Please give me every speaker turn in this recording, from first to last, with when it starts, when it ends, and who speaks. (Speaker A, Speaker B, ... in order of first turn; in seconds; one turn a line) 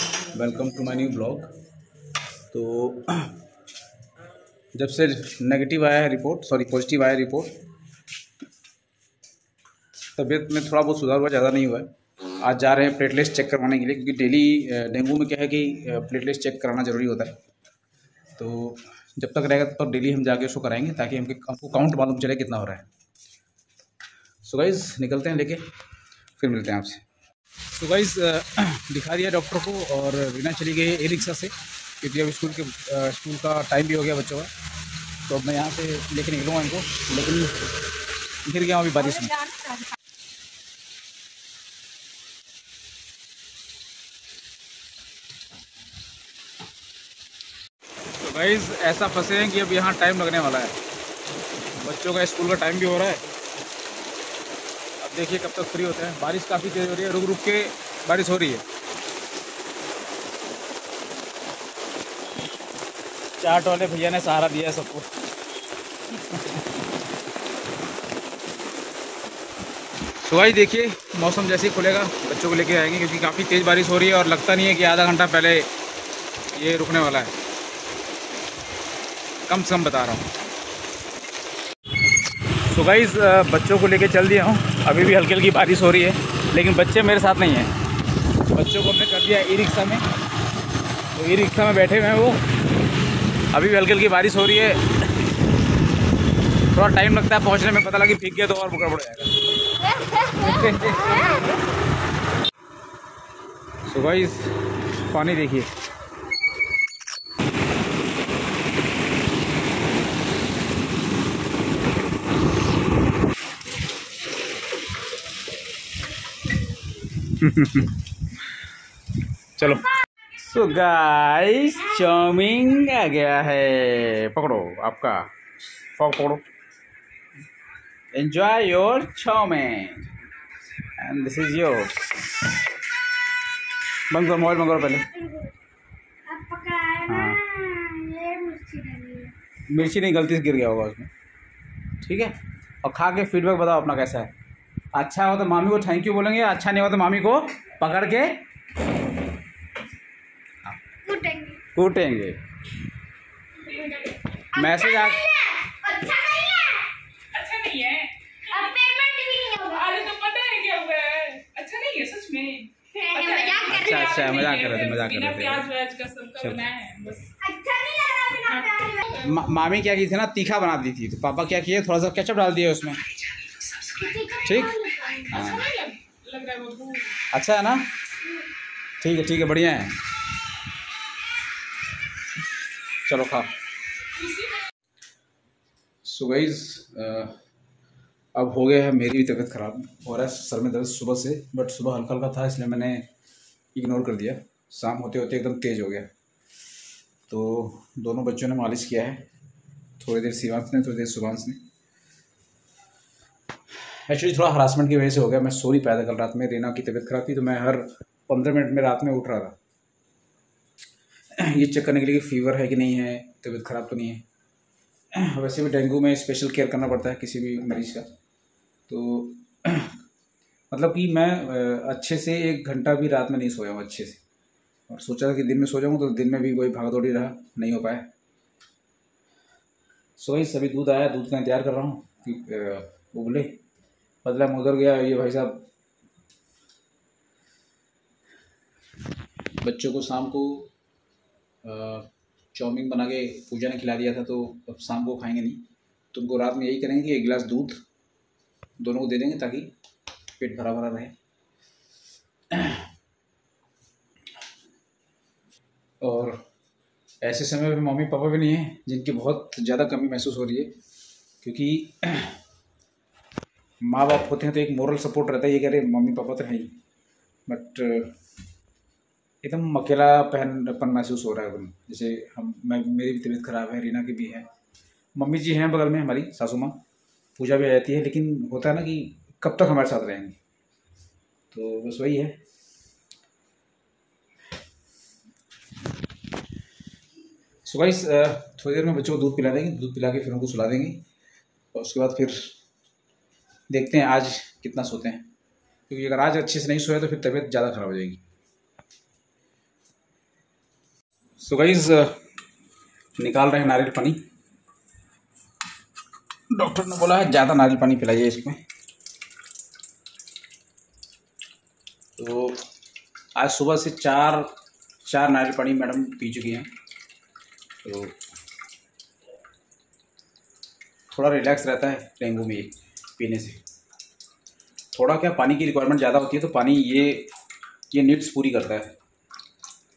Speaker A: 0.3-1.5
Speaker A: 2.5-3.4
Speaker A: 4.7-7.5
Speaker A: 10.2-17.4
Speaker A: 18.4-22.9
Speaker A: 24.4-25.7
Speaker A: 26.4-27.0
Speaker A: 27.7-34.5
Speaker A: 35.3-37.5
Speaker A: 38.5-39.5
Speaker B: 39.6-39.8
Speaker A: 48.2-50.8
Speaker A: 51.8-53.2
Speaker A: 55.0-58.6
Speaker A: 63.4-65.1
Speaker A: 66.1-66.7
Speaker A: 70.2-75.7
Speaker A: 76.5-77.3
Speaker A: 79.5-80.3
Speaker A: 82.6-87.7
Speaker A: 88.5-90.1
Speaker A: 91.1-92.4
Speaker A: 93.5-94.9
Speaker A: 96.7-99.3
Speaker A: 100.2-101.4
Speaker A: 103.9-105.7
Speaker A: 117.2-118.0
Speaker A: 119.6-125.3
Speaker A: 125.9-126.4
Speaker A: 128.1-130.1
Speaker A: 131.0-132.5
Speaker A: 134.1-135.1
Speaker B: 134.9-135.6
Speaker B: 136.3-139.3
Speaker A: 137.1-137.4
Speaker A: 139.7-141.1
Speaker A: 142.0-144.3
Speaker A: 144.9-148.4
Speaker B: 151.0-151.6
Speaker A: 151.7-152.4
Speaker C: 153.7-154.2
Speaker B: 154.4-156.9
Speaker A: 154.5-155.3
Speaker C: 157.3-158.2
Speaker B: 158.5-160.1
Speaker C: 159.7-167.3
Speaker B: 162.9-164.2
Speaker A: 163.7-165.7
Speaker B: 167.4-169.3
Speaker C: 168.5-169.2
Speaker A: 169.2-173.0
Speaker B: 173.8-175.5
Speaker A: 174.4-174.8
Speaker A: 175.3-175.7
Speaker C: 175.4-177.2
Speaker A: 177.3-177.9
Speaker A: 179.0-180.0
Speaker A: 183.0-183.6
Speaker C: 184.2-184.6
Speaker A: 186.0-187.4
Speaker A: 188.3-193.1
Speaker A: 193.7-196.1
Speaker A: 197.3-199.2
Speaker A: 200.0-201.6
Speaker A: 203.8-209.6
Speaker A: 211.3-214.2
Speaker A: 215.1-218.1
Speaker A: 218.9-219.9
Speaker A: 220.7-224.2
Speaker A: 224.9-228.1
Speaker A: 230.2-233.6
Speaker A: 234.2-235.7
Speaker A: 239.6-240.7
Speaker A: 241.6-245.6
Speaker A: 246.1-247.8
Speaker A: 248.8-249.7
Speaker A: 250.4-251.1
Speaker A: 252.5-252.9
Speaker A: 256.0-256.4
Speaker A: 257.2-260.7
Speaker A: 261.4-262.4
Speaker A: 263.8-266.7
Speaker A: 267.5-268.2
Speaker A: 269.4-274.5
Speaker A: 275.2-276.8
Speaker A: 277.4-280.4
Speaker A: 281.5-282.4
Speaker A: 287.6-291.0
Speaker A: 291.7-292.5
Speaker A: 293.7-295.2
Speaker A: 295.9-298.2
Speaker A: 301.4-302.2
Speaker A: 303.2-304.2
Speaker A: 306.5-308.6
Speaker A: 312.2-312.6
Speaker A: 313.4-314.5
Speaker A: 315.1-316.7
Speaker A: 317.8-318.2
Speaker A: 321.1-323.6
Speaker A: 324.9-327.3
Speaker A: 327.9-329.0